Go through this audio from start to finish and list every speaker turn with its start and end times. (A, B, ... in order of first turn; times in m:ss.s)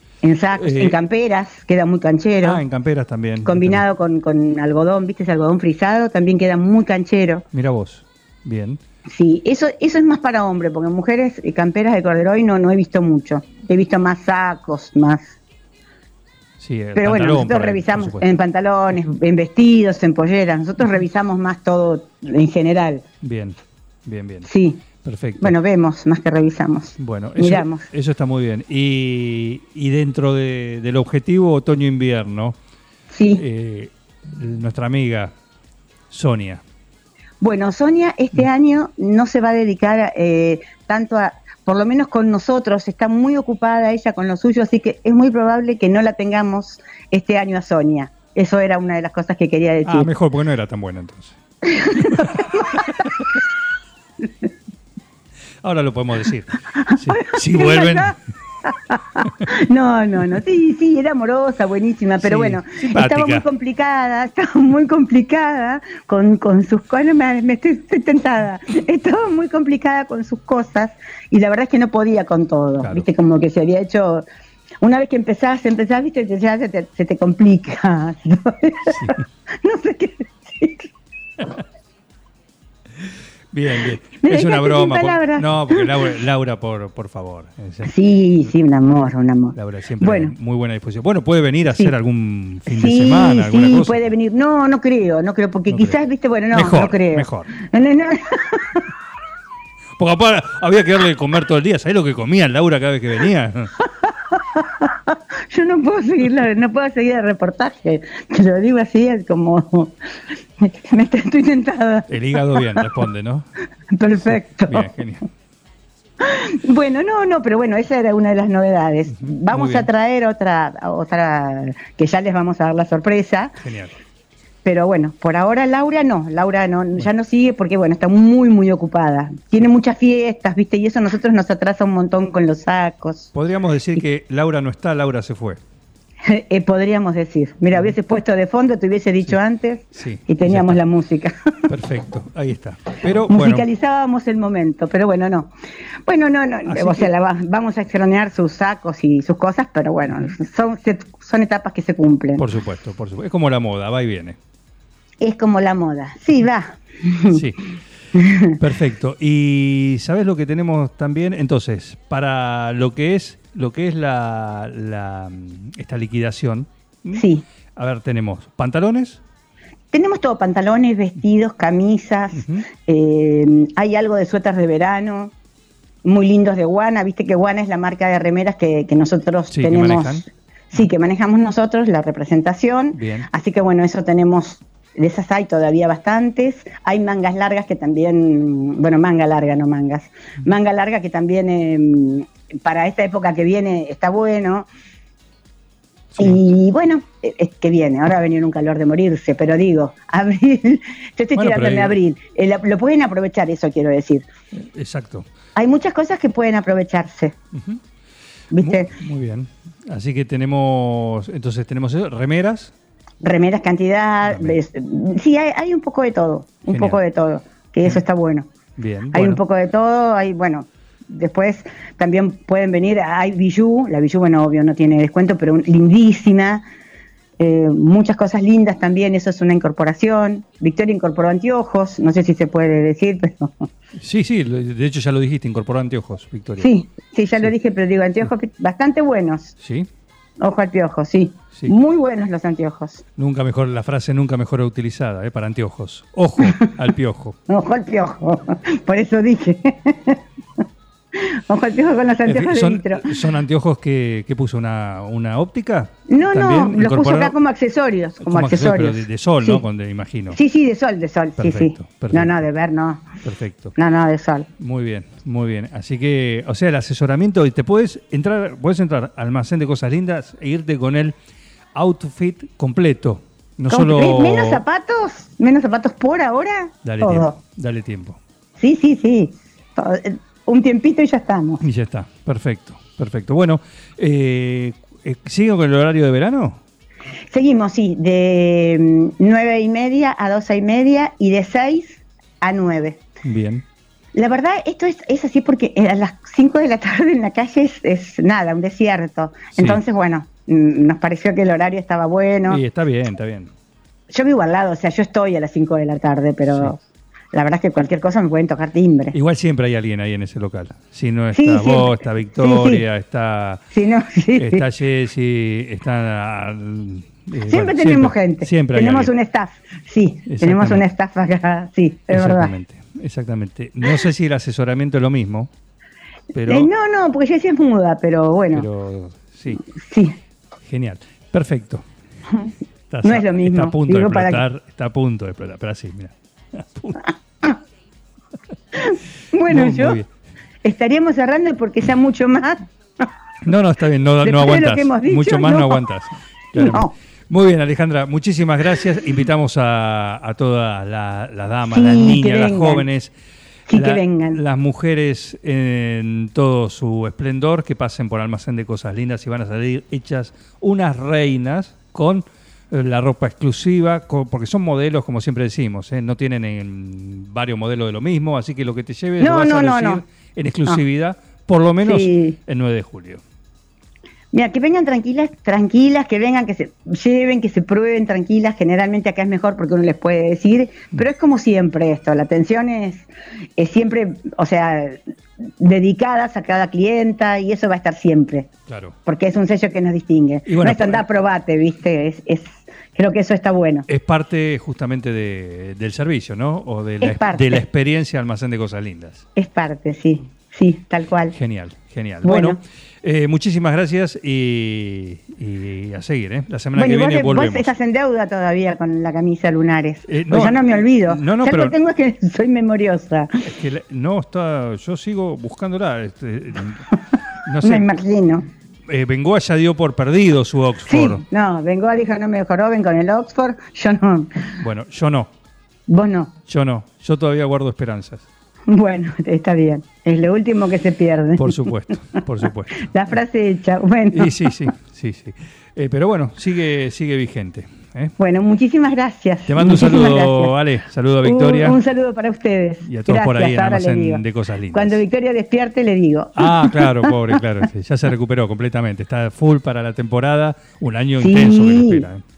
0:00.2-0:02.6 A
0:00.5-0:01.0 B
0:02.4-0:03.8 B
0:03.4-0:07.4 A
0:07.5-0:08.8 B
0:09.1-0:15.4 A
0:16.6-0:18.4 B
0:17.0-0:23.0 A
0:23.2-0:24.5 B
0:24.4-0:24.8 A
0:25.0-0:25.6 B
0:25.4-0:27.9 A
0:27.0-0:32.6 B
0:33.1-0:33.4 A
0:33.4-0:35.3 B
0:36.1-0:36.6 B
0:37.4-0:50.1 A
0:49.9-0:51.4 B
0:51.6-0:53.2 A
0:52.1-0:52.9 B
0:55.6-0:58.2 B
0:56.8-1:14.2 A
1:02.2-1:03.4 B
1:12.8-1:13.1 B
1:14.8-1:20.9 A
1:18.9-1:19.2 B
1:23.5-1:27.9 B
1:24.2-1:26.0 A
1:27.8-1:30.3 A
1:29.6-1:34.1 B
1:31.7-1:31.9 A
1:32.7-1:38.8 A
1:35.7-1:36.0 B
1:36.5-1:37.5 B
1:40.0-1:43.7 B
1:43.8-1:50.0 A
1:50.6-1:52.9 A
1:52.1-1:53.5 B
1:54.0-1:54.9 A
1:54.2-1:55.2 B
1:56.2-2:03.6 A
1:59.1-1:59.9 B
2:03.6-2:03.9 B
2:04.6-2:13.3 A
2:13.3-2:15.6 B
2:16.3-2:21.4 A
2:19.9-2:20.8 B
2:21.7-2:23.7 B
2:23.3-2:25.5 A
2:26.1-2:32.4 A
2:26.7-2:27.1 B
2:32.4-2:34.4 B
2:35.2-2:37.4 A
2:37.3-2:37.6 B
2:38.2-2:38.5 A
2:38.6-2:49.2 B
2:47.2-2:47.4 A
2:49.9-2:55.3 A
2:52.4-2:52.7 B
2:56.0-3:14.7 A
2:59.5-3:00.2 B
3:02.9-3:03.3 B
3:16.1-3:16.4 B
3:16.2-3:24.3 A
3:21.4-3:22.0 B
3:24.6-3:25.3 B
3:25.6-3:27.3 A
3:27.5-3:27.8 B
3:28.5-3:28.9 A
3:28.6-3:32.7 B
3:33.2-3:38.5 A
3:34.2-3:34.6 B
3:36.7-3:37.0 B
3:38.8-3:39.4 B
3:39.1-3:46.6 A
3:47.4-3:53.7 A
3:54.0-3:56.7 B
3:56.6-3:59.5 A
3:59.6-3:59.9 B
4:00.4-4:03.0 A
4:03.2-4:07.4 B
4:07.5-4:10.2 A
4:11.2-4:13.1 A
4:12.2-4:17.4 B
4:16.1-4:19.6 A
4:18.2-4:20.4 B
4:20.3-4:23.1 A
4:21.4-4:22.5 B
4:23.2-4:23.8 B
4:23.8-4:24.5 A
4:24.6-4:31.2 B
4:31.8-4:34.6 B
4:33.7-4:37.4 A
4:36.8-4:38.2 B
4:38.6-4:41.6 A
4:41.6-4:46.6 B
4:47.3-4:53.0 A
4:53.2-4:53.6 B
4:54.2-5:02.6 A
4:59.5-4:59.8 B
5:02.5-5:03.5 B
5:04.1-5:06.8 A
5:06.5-5:06.8 B
5:07.3-5:09.2 A
5:09.1-5:13.6 B
5:11.3-5:12.8 A
5:13.7-5:14.7 A
5:14.4-5:19.1 B
5:17.5-5:22.5 A
5:20.3-5:20.8 B
5:22.1-5:25.5 B
5:26.3-5:26.7 B
5:26.5-5:28.7 A
5:28.5-5:29.6 B
5:29.7-5:30.2 A
5:30.6-5:31.8 B
5:32.9-5:37.1 B
5:33.0-5:34.4 A
5:38.8-5:40.0 A
5:39.5-5:40.1 B
5:40.6-5:43.1 A
5:43.4-5:53.1 B
5:44.2-5:45.8 A
5:46.6-5:46.9 A
5:51.7-5:52.9 A
5:53.7-5:54.4 A
5:53.7-6:13.2 B
6:09.2-6:10.0 A
6:11.8-6:12.4 A
6:14.3-6:25.0 A
6:25.6-6:28.5 A
6:28.7-6:29.0 B
6:29.1-6:33.9 A
6:30.5-6:31.0 B
6:33.9-6:39.2 B
6:37.0-6:37.6 A
6:39.4-6:41.4 A
6:41.3-6:47.7 B
6:42.2-6:42.6 A
6:46.8-6:53.3 A
6:50.1-6:51.8 B
6:53.4-6:56.9 B
6:57.4-6:57.9 B
6:57.6-6:58.4 A
6:58.9-7:01.2 B
7:00.9-7:04.3 A
7:04.6-7:05.3 B
7:05.9-7:06.3 A
7:06.5-7:08.2 B
7:08.7-7:11.6 A
7:11.4-7:13.0 B
7:12.8-7:14.5 A
7:14.1-7:18.2 B
7:18.2-7:20.5 A
7:19.5-7:21.8 B
7:21.2-7:24.2 A
7:22.8-7:25.0 B
7:24.7-7:27.4 A
7:26.4-7:32.2 B
7:31.2-7:32.1 A